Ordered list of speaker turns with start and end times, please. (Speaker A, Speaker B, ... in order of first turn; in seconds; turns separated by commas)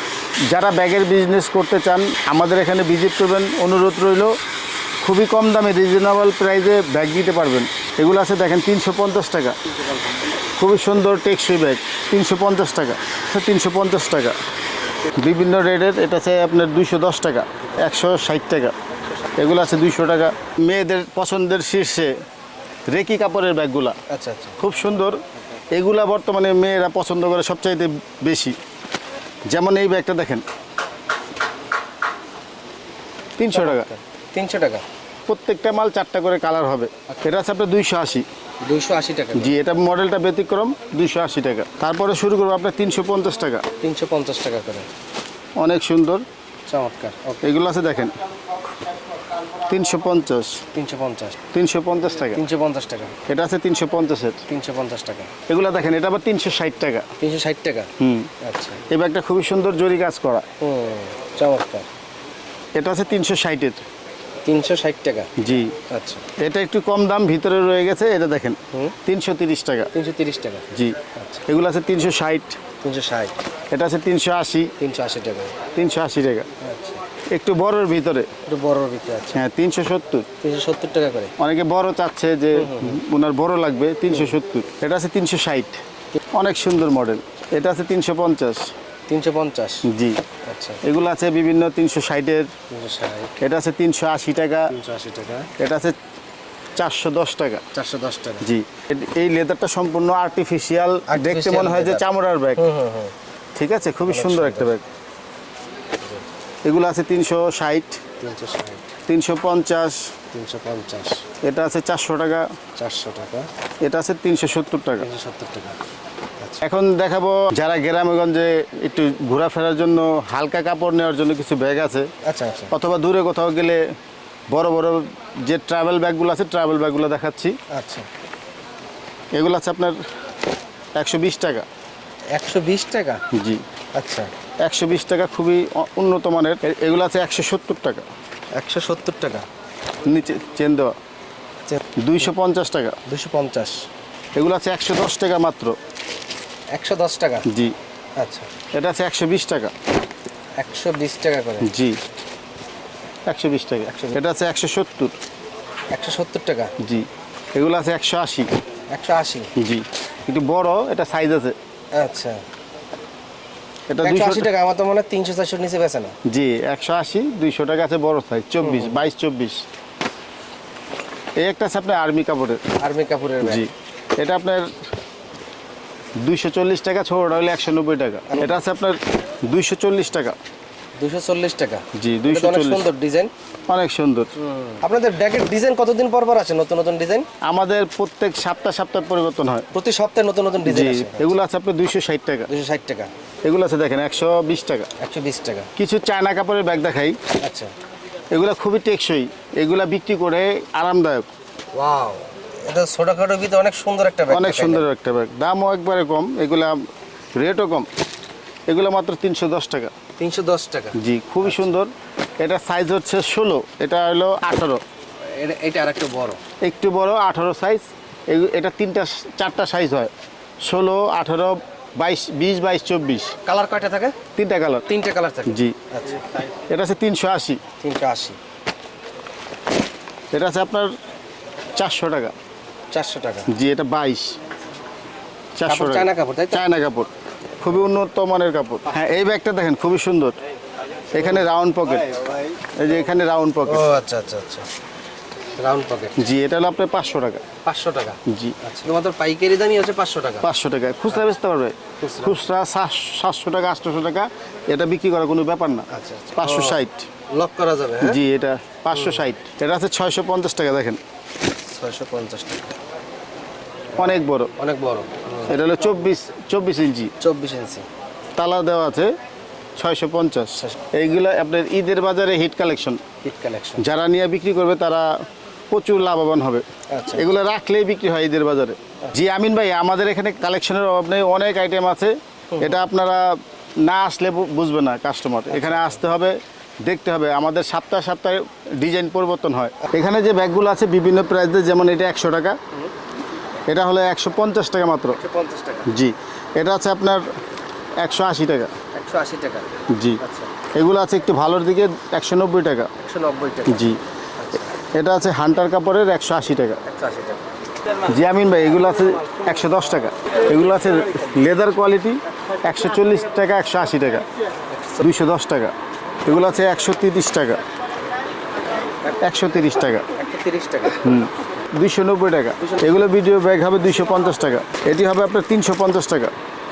Speaker A: 0.5-4.3, Speaker A: 5.0-9.6, Speaker A: 10.6-14.4, Speaker A: 15.2-18.8, Speaker A: 19.4-22.1, Speaker A: 22.9-23.9, Speaker B: 24.1-24.6, Speaker A: 24.6-25.2, Speaker A: 25.7-28.6, Speaker A: 29.5-30.4, Speaker A: 33.4-33.9, Speaker B: 33.5-34.8, Speaker A: 35.3-38.2, Speaker B: 38.6-39.5, Speaker A: 39.3-43.6, Speaker B: 43.8-44.9, Speaker A: 45.6-46.2, Speaker B: 46.7-47.4, Speaker A: 47.4-48.2, Speaker A: 49.7-50.6, Speaker B: 50.7-51.4, Speaker A: 51.5-52.4, Speaker B: 52.3-53.1, Speaker A: 53.3-54.4, Speaker B: 54.5-55.3, Speaker A: 55.5-57.1, Speaker B: 57.2-57.9, Speaker A: 58.0-58.3, Speaker B: 58.4-58.8, Speaker A: 58.9-60.5, Speaker B: 60.6-61.9, Speaker A: 62.8-63.8, Speaker B: 64.4-66.2, Speaker A: 65.4-65.8, Speaker A: 66.4-69.9, Speaker B: 69.9-71.5, Speaker A: 70.7-72.6, Speaker B: 72.8-73.3, Speaker A: 73.7-74.7, Speaker B: 74.8-75.5, Speaker A: 75.7-76.5, Speaker B: 76.6-77.0, Speaker A: 77.3-78.3, Speaker B: 78.5-79.4, Speaker A: 79.3-80.3, Speaker B: 80.4-81.3, Speaker A: 81.4-85.8, Speaker B: 82.5-83.0, Speaker B: 84.1-84.4, Speaker A: 86.3-88.7, Speaker B: 89.1-89.9, Speaker A: 89.8-90.2, Speaker B: 90.4-90.8, Speaker A: 90.8-92.5, Speaker B: 92.7-93.4, Speaker A: 93.4-94.7, Speaker B: 94.7-95.5, Speaker A: 95.6-96.0, Speaker A: 96.8-97.6, Speaker B: 97.7-98.5, Speaker A: 98.4-102.7, Speaker B: 101.1-103.1, Speaker A: 103.6-104.8, Speaker B: 104.0-104.7, Speaker A: 106.6-108.0, Speaker B: 108.2-108.9, Speaker A: 109.1-110.1, Speaker B: 110.3-111.2, Speaker A: 111.4-112.5, Speaker B: 112.8-113.5, Speaker A: 113.8-115.1, Speaker B: 115.0-115.8, Speaker A: 116.6-122.1, Speaker B: 122.2-122.7, Speaker A: 122.7-123.9, Speaker A: 124.5-127.6, Speaker B: 127.7-128.1, Speaker A: 129.3-130.0, Speaker A: 130.9-131.7, Speaker B: 132.3-133.2, Speaker A: 133.3-133.6, Speaker B: 133.9-134.3, Speaker A: 134.6-138.1, Speaker B: 138.5-139.4, Speaker A: 140.1-140.9, Speaker A: 142.0-143.0, Speaker B: 143.1-143.8, Speaker A: 144.3-145.8, Speaker B: 146.7-147.5, Speaker A: 147.4-147.7, Speaker B: 148.2-148.5, Speaker A: 148.7-149.7, Speaker B: 150.6-151.7, Speaker A: 151.6-152.0, Speaker A: 153.3-155.2, Speaker B: 153.9-154.2, Speaker B: 155.9-156.7, Speaker A: 156.8-158.5, Speaker B: 158.9-159.5, Speaker A: 159.6-161.6, Speaker B: 161.9-162.4, Speaker A: 163.9-164.5, Speaker B: 164.0-166.2, Speaker A: 166.2-169.6, Speaker B: 168.6-169.1, Speaker A: 171.4-172.7, Speaker B: 172.8-173.7, Speaker A: 173.4-174.7, Speaker A: 176.2-180.3, Speaker B: 178.3-178.6, Speaker B: 181.0-183.3, Speaker A: 181.9-182.9, Speaker A: 183.7-184.3, Speaker B: 184.4-187.3, Speaker A: 187.4-189.7, Speaker B: 189.7-191.3, Speaker A: 190.6-192.5, Speaker B: 192.5-193.1, Speaker A: 193.4-194.9, Speaker B: 195.0-195.7, Speaker A: 195.8-197.2, Speaker B: 197.4-197.7, Speaker A: 198.3-201.3, Speaker B: 201.7-204.8, Speaker A: 204.3-206.8, Speaker A: 207.3-207.9, Speaker A: 208.7-209.9, Speaker B: 210.2-211.7, Speaker A: 210.9-214.8, Speaker B: 215.3-216.4, Speaker A: 216.6-220.1, Speaker A: 220.6-223.3, Speaker B: 223.4-224.2, Speaker A: 224.3-224.9, Speaker B: 224.9-226.3, Speaker A: 225.4-225.8, Speaker A: 226.7-227.6, Speaker B: 227.8-228.4, Speaker A: 230.3-230.9, Speaker A: 231.8-232.3, Speaker B: 232.9-233.5, Speaker A: 233.5-234.4, Speaker A: 235.6-240.4, Speaker B: 235.7-236.6, Speaker A: 241.1-243.9, Speaker B: 241.2-241.4, Speaker B: 243.7-244.7, Speaker B: 245.6-246.3, Speaker A: 246.2-247.5, Speaker B: 247.6-250.5, Speaker A: 248.2-248.6, Speaker A: 250.4-257.1, Speaker B: 252.0-252.4, Speaker B: 255.9-258.2, Speaker A: 258.0-261.0, Speaker B: 258.9-259.3, Speaker B: 261.6-262.7, Speaker B: 263.9-265.6, Speaker A: 264.0-264.5, Speaker A: 265.4-267.1, Speaker B: 267.2-267.9, Speaker A: 268.4-269.1, Speaker A: 269.8-273.0, Speaker B: 273.2-273.8, Speaker A: 273.8-275.2, Speaker A: 275.7-292.6, Speaker B: 276.9-277.3, Speaker B: 282.5-282.8, Speaker B: 285.5-286.0, Speaker A: 293.7-295.2, Speaker B: 295.1-295.9, Speaker A: 295.9-297.3, Speaker A: 298.0-298.7, Speaker B: 298.9-300.5, Speaker A: 299.9-300.2, Speaker A: 300.7-302.9, Speaker B: 303.0-304.8, Speaker A: 303.7-304.0, Speaker A: 304.9-306.8, Speaker B: 306.9-307.4, Speaker A: 308.0-314.3, Speaker B: 314.7-315.1, Speaker A: 315.0-315.7, Speaker A: 316.3-317.6, Speaker A: 319.2-320.1, Speaker B: 320.1-321.1, Speaker A: 321.0-326.3, Speaker B: 322.6-323.0